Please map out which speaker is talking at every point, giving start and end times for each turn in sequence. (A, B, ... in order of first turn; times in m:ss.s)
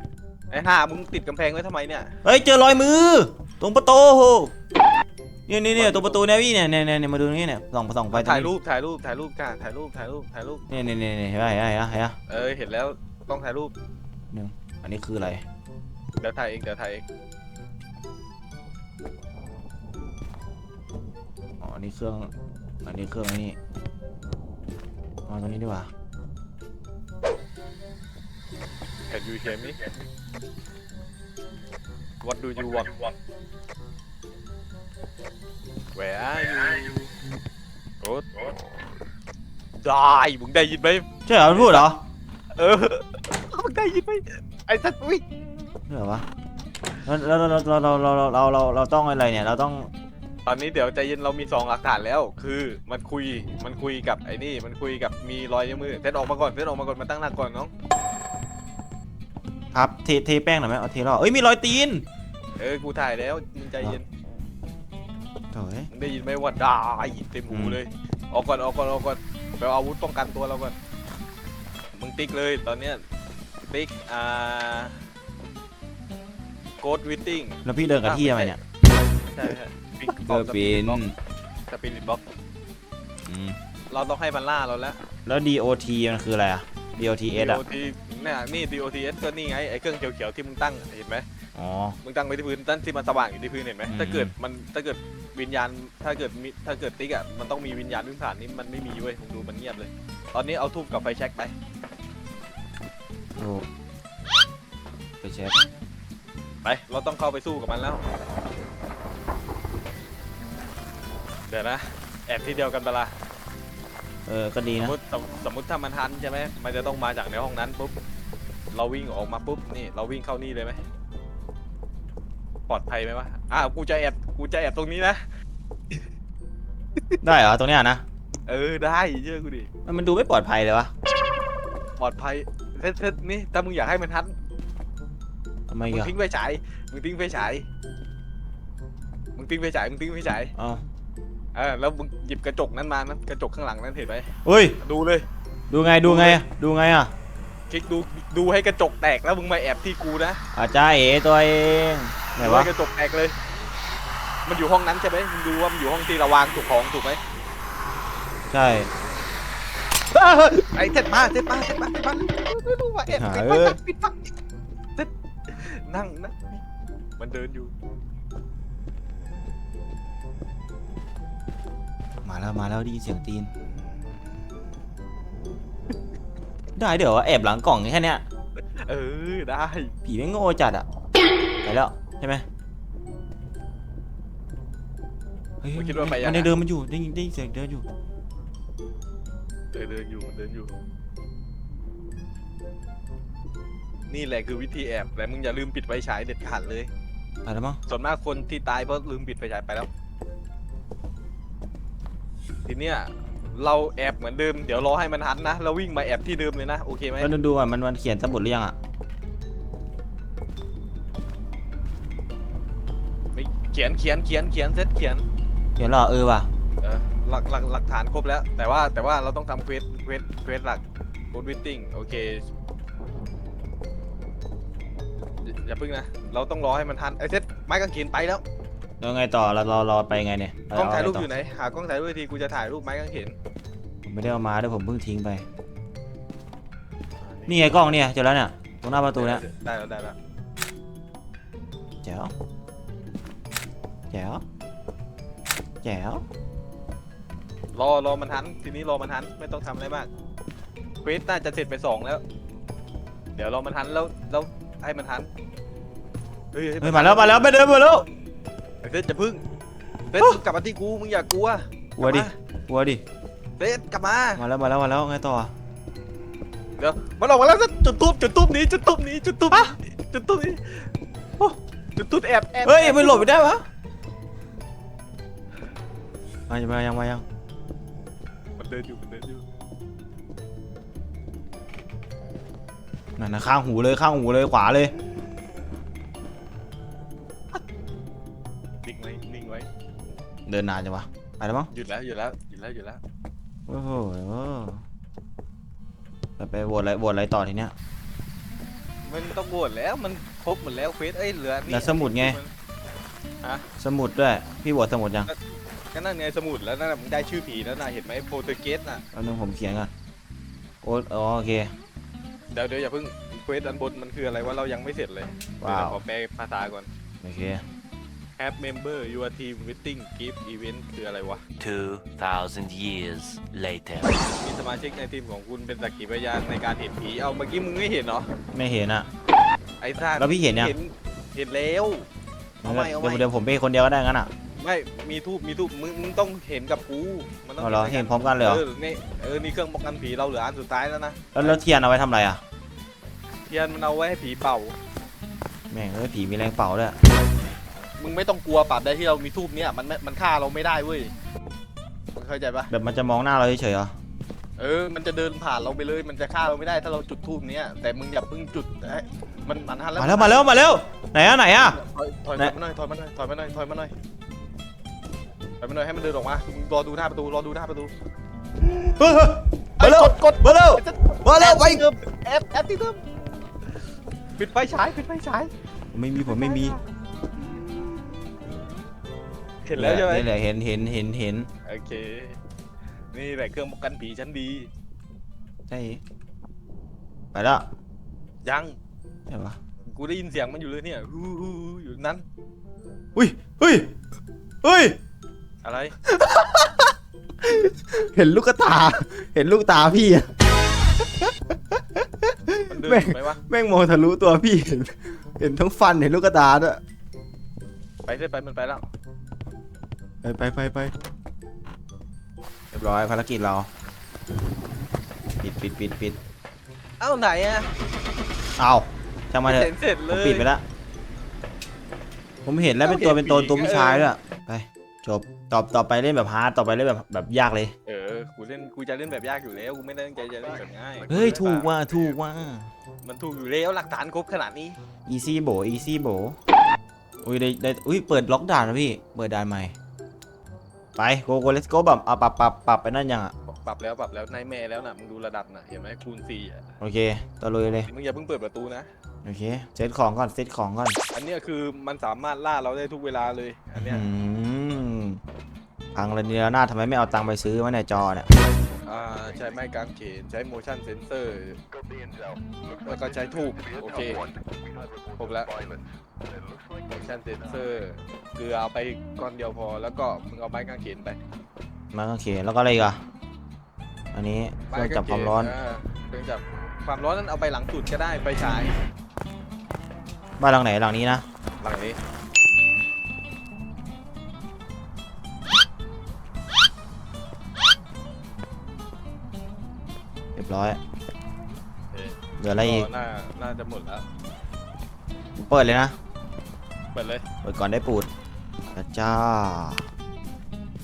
0:00.5-0:02.1 A
0:02.2-0:04.5 B
0:05.5-0:08.5 B
0:05.7-0:06.2 A
0:08.1-0:10.6 A
0:10.7-0:12.2 B
0:12.3-0:13.7 A
0:14.3-0:15.4 B
0:16.2-0:17.0 A
0:21.6-0:22.3 B
0:22.8-0:23.6 B
0:25.3-0:25.9 B
0:29.1-0:29.8 A
0:32.2-0:33.0 A
0:36.0-0:37.1 A
0:38.0-0:38.4 A
0:39.8-0:41.9 A
0:41.3-0:42.0 B
0:42.6-0:45.2 A
0:45.9-0:46.3 B
0:47.0-0:49.9 B
0:50.5-0:57.7 A
0:59.7-1:02.1 B
1:02.6-1:04.0 A
1:05.5-1:05.9 B
1:05.9-1:10.8 A
1:07.5-1:07.8 B
1:12.0-1:13.0 A
1:13.6-1:15.0 A
1:16.8-1:18.6 A
1:17.6-1:18.6 B
1:19.2-1:21.0 A
1:20.3-1:21.2 B
1:21.7-1:22.2 A
1:23.3-1:23.6 B
1:23.9-1:25.0 A
1:25.3-1:27.6 B
1:27.3-1:31.3 A
1:31.6-1:32.0 B
1:32.0-1:41.5 A
1:33.9-1:34.3 B
1:43.4-1:43.7 B
1:45.2-1:45.6 B
1:46.6-1:48.0 A
1:51.5-1:53.2 A
1:54.3-1:55.0 B
1:54.8-1:58.0 A
1:58.7-2:00.8 A
2:02.7-2:05.2 A
2:07.2-2:08.0 B
2:08.5-2:09.7 A
2:09.8-2:10.9 B
2:12.0-2:14.3 A
2:15.7-2:16.1 B
2:15.9-2:17.7 A
2:19.4-2:20.5 A
2:20.6-2:20.8 B
2:21.6-2:25.3 A
2:24.4-2:24.8 B
2:25.7-2:27.1 B
2:26.0-2:26.4 A
2:27.7-2:30.4 A
2:30.5-2:32.7 B
2:32.4-2:33.4 A
2:34.5-2:37.2 A
2:38.5-2:38.9 B
2:40.2-2:40.5 B
2:40.6-2:44.3 A
2:43.1-2:43.8 B
2:45.0-2:46.6 A
2:47.2-2:47.7 A
2:52.2-2:53.5 B
2:56.8-2:58.2 B
2:58.6-2:59.9 A
3:00.0-3:00.9 B
3:01.6-3:02.4 B
3:05.6-3:07.9 B
3:05.8-3:06.6 A
3:09.7-3:10.8 A
3:14.1-3:16.9 A
3:17.4-3:17.8 B
3:17.9-3:19.9 A
3:22.7-3:27.3 A
3:27.2-3:28.8 B
3:33.3-3:35.2 A
3:35.8-3:36.5 B
3:36.8-3:42.5 A
3:45.4-3:48.4 A
3:49.0-3:51.3 B
3:50.7-3:53.4 A
3:54.0-3:55.4 B
3:57.2-3:57.8 A
3:57.5-3:59.4 B
3:59.1-4:00.2 A
4:02.0-4:02.3 B
4:04.1-4:04.4 B
4:05.8-4:06.2 B
4:07.7-4:10.1 A
4:11.0-4:12.2 A
4:13.4-4:15.3 A
4:16.5-4:17.5 A
4:16.8-4:18.1 B
4:18.8-4:19.4 A
4:20.1-4:22.3 A
4:22.0-4:23.0 B
4:23.6-4:24.4 A
4:24.4-4:25.5 B
4:26.8-4:33.3 A
4:32.6-4:33.6 B
4:36.5-4:37.2 B
4:38.6-4:39.4 A
4:43.2-4:44.9 B
4:48.8-4:49.7 A
4:50.5-4:51.7 B
4:51.7-4:53.0 A
4:53.7-4:54.8 B
4:56.4-4:57.7 B
4:59.1-5:02.5 A
5:01.7-5:02.4 B
5:03.8-5:05.3 B
5:05.9-5:09.0 A
5:09.1-5:09.9 B
5:10.8-5:11.7 B
5:12.5-5:16.9 A
5:15.6-5:16.0 B
5:17.2-5:17.6 B
5:18.4-5:21.4 A
5:21.6-5:24.2 C
5:24.4-5:28.3 A
5:28.5-5:29.1 B
5:29.8-5:32.1 A
5:30.2-5:30.8 B
5:32.6-5:34.3 B
5:32.6-5:33.2 A
5:34.6-5:41.6 A
5:37.6-5:38.6 B
5:41.3-5:42.4 B
5:43.5-5:44.8 A
5:45.7-5:47.0 B
5:48.0-5:51.1 A
5:52.1-5:52.7 A
5:52.7-5:53.9 B
5:54.6-6:00.7 A
6:00.0-6:01.8 B
6:01.8-6:03.9 A
6:05.6-6:07.9 A
6:08.7-6:11.8 B
6:09.8-6:13.0 A
6:14.4-6:15.5 A
6:15.9-6:16.8 B
6:16.4-6:16.8 A
6:19.6-6:20.3 A
6:19.8-6:21.5 B
6:21.6-6:22.4 A
6:23.1-6:24.7 A
6:25.7-6:26.0 B
6:27.3-6:27.7 B
6:28.4-6:28.8 A
6:29.3-6:29.6 B
6:29.9-6:32.2 A
6:33.2-6:34.0 B
6:34.6-6:35.0 B
6:35.6-6:35.9 A
6:36.0-6:40.3 B
6:41.2-6:46.8 B
6:42.7-6:43.4 A
6:48.0-6:48.9 A
6:50.2-6:50.9 B
6:52.7-6:53.7 B
6:55.4-6:56.2 B
6:57.0-6:57.7 A
6:58.6-7:00.6 B
6:59.4-7:00.5 A
7:02.4-7:07.7 B
7:02.8-7:04.1 A
7:07.9-7:11.7 A
7:11.1-7:12.7 B
7:13.0-7:14.8 A
7:15.1-7:16.4 B
7:17.2-7:19.7 B
7:21.0-7:23.3 B
7:23.5-7:26.7 A
7:26.8-7:27.9 B
7:27.9-7:28.9 A
7:29.2-7:31.0 B
7:31.1-7:34.0 A
7:33.8-7:35.2 B
7:35.9-7:38.3 B
7:38.8-7:41.6 A
7:42.8-7:44.2 A
7:45.1-7:45.5 A
7:46.9-7:51.2 A
7:51.9-7:53.0 B
7:54.1-7:55.5 B
7:54.7-7:58.8 A
8:00.4-8:01.2 B
8:01.6-8:02.0 A
8:10.4-8:10.8 B
8:11.9-8:14.1 A
8:12.4-8:12.9 B
8:15.4-8:16.0 B
8:16.9-8:17.2 A
8:17.4-8:18.1 B
8:18.6-8:19.9 B